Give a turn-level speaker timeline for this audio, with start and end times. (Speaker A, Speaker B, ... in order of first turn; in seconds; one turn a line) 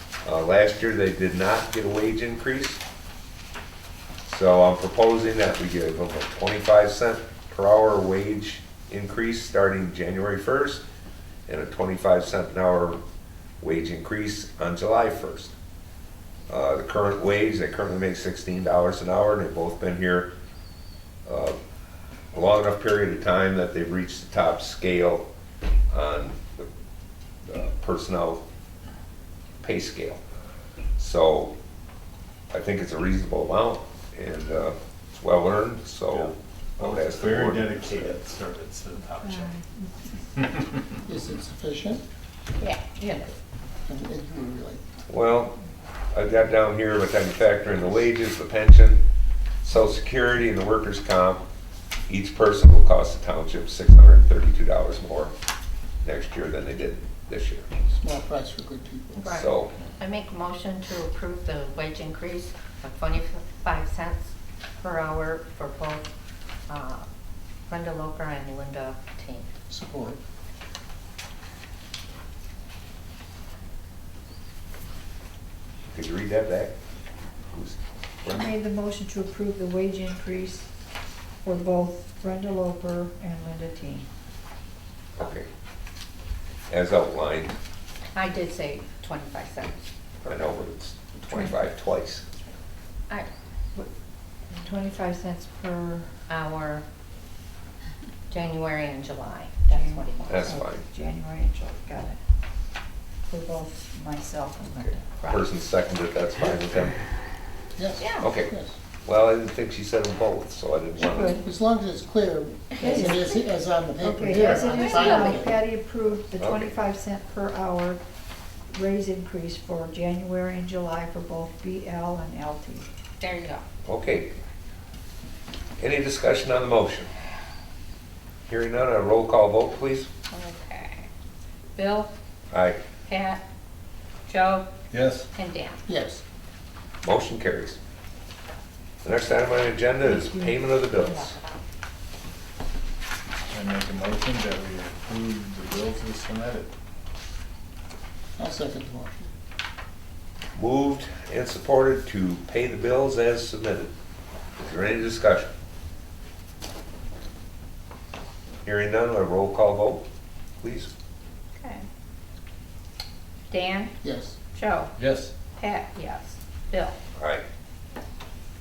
Speaker A: 0.2-2.8
Speaker A: 4.2-10.8
Speaker A: 11.5-13.0
Speaker A: 13.6-15.5
Speaker A: 16.5-20.3
Speaker A: 21.2-21.6
Speaker A: 22.3-25.3
Speaker A: 25.9-26.7
Speaker A: 27.4-28.4
Speaker A: 29.6-30.2
Speaker A: 31.0-31.5
Speaker A: 32.5-38.1
Speaker B: 36.1-39.5
Speaker B: 40.3-40.8
Speaker C: 41.1-42.0
Speaker D: 42.6-43.2
Speaker C: 43.9-44.8
Speaker A: 45.1-45.5
Speaker A: 46.1-49.0
Speaker A: 49.6-51.4
Speaker A: 52.1-55.3
Speaker A: 56.0-57.7
Speaker C: 57.9-59.3
Speaker D: 59.2-66.1
Speaker A: 59.3-59.7
Speaker D: 66.7-67.1
Speaker D: 67.7-69.5
Speaker C: 69.7-70.2
Speaker A: 75.9-76.7
Speaker A: 77.5-78.5
Speaker E: 78.2-80.7
Speaker E: 81.4-84.1
Speaker A: 85.2-85.5
Speaker A: 86.7-87.6
Speaker D: 88.1-90.2
Speaker A: 90.2-92.3
Speaker E: 94.5-96.1
Speaker D: 96.3-96.8
Speaker D: 98.3-100.6
Speaker E: 99.7-102.2
Speaker A: 100.3-100.8
Speaker E: 103.3-105.5
Speaker A: 104.8-107.0
Speaker C: 107.8-108.8
Speaker D: 108.0-108.2
Speaker A: 108.2-108.5
Speaker A: 109.0-111.4
Speaker E: 111.0-111.4
Speaker C: 111.4-115.5
Speaker E: 112.8-113.3
Speaker D: 112.9-113.3
Speaker E: 114.0-118.0
Speaker D: 114.4-115.5
Speaker A: 116.4-116.7
Speaker E: 118.7-122.9
Speaker D: 123.2-123.6
Speaker A: 123.8-124.4
Speaker A: 125.8-127.1
Speaker A: 128.5-130.1
Speaker D: 130.3-131.1
Speaker D: 131.7-132.1
Speaker A: 132.5-132.8
Speaker D: 133.1-133.4
Speaker D: 134.3-134.7
Speaker B: 134.9-135.3
Speaker D: 135.3-135.8
Speaker C: 135.9-136.2
Speaker A: 137.0-137.8
Speaker A: 139.0-141.3
Speaker B: 143.5-146.7
Speaker C: 148.4-149.3
Speaker A: 150.5-153.9
Speaker A: 154.6-155.5
Speaker A: 158.6-160.0
Speaker A: 160.6-160.9
Speaker D: 161.6-161.8
Speaker D: 163.5-163.9
Speaker C: 164.0-164.4
Speaker D: 164.5-164.9
Speaker B: 165.0-165.3
Speaker D: 165.6-166.9
Speaker A: 167.2-167.4